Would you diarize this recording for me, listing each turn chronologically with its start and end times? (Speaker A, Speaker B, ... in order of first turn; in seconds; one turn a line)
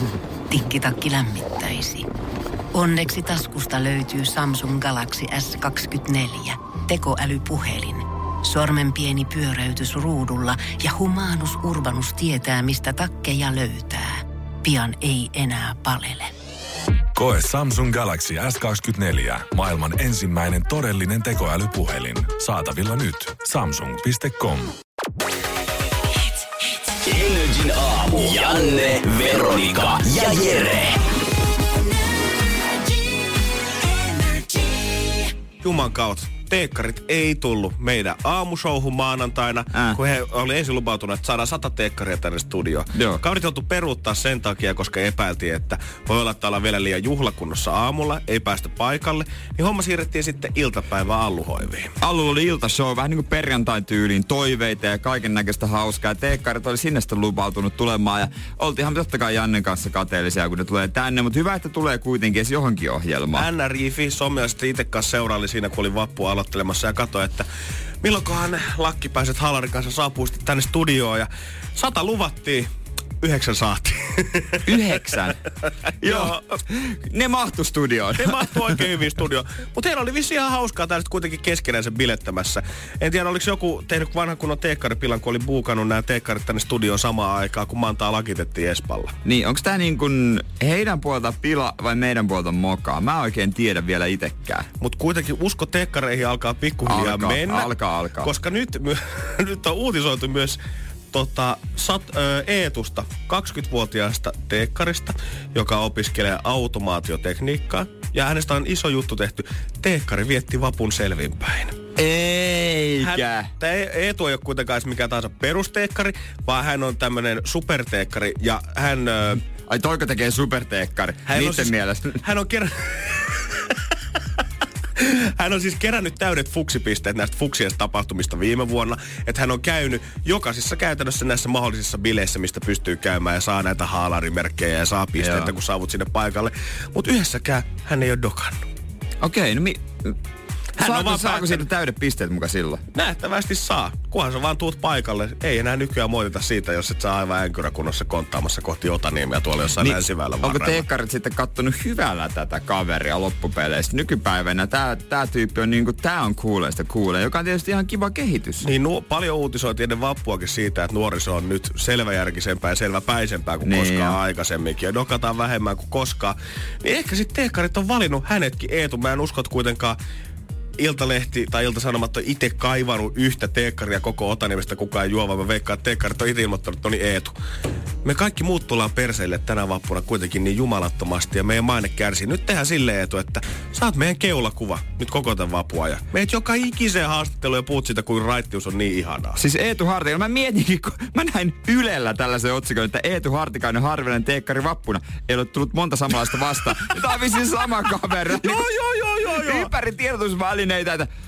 Speaker A: 0.5-2.1
Speaker A: 2.7-16.3
Speaker B: 17.1-24.7
Speaker C: 27.0-30.9
Speaker D: 35.6-51.9
Speaker E: 39.7-40.0
Speaker E: 42.9-43.2
Speaker E: 52.0-63.5
Speaker D: 63.3-67.5
Speaker D: 68.0-72.7
Speaker D: 73.2-74.8
Speaker E: 74.7-75.4
Speaker E: 76.0-78.9
Speaker D: 76.0-76.4
Speaker D: 78.2-89.1
Speaker E: 89.2-94.7
Speaker D: 94.8-100.6
Speaker E: 96.8-98.3
Speaker D: 101.1-111.8
Speaker E: 112.0-113.5
Speaker D: 113.0-119.4
Speaker E: 119.7-122.2
Speaker D: 121.3-123.7
Speaker D: 125.0-138.6
Speaker E: 135.2-135.5
Speaker E: 139.2-140.1
Speaker D: 140.8-141.7
Speaker E: 140.8-142.8
Speaker D: 142.9-150.8
Speaker E: 149.8-158.6
Speaker D: 158.6-170.0
Speaker E: 163.6-164.2
Speaker D: 170.8-177.3
Speaker D: 178.0-189.4
Speaker E: 189.3-201.1
Speaker D: 198.4-199.7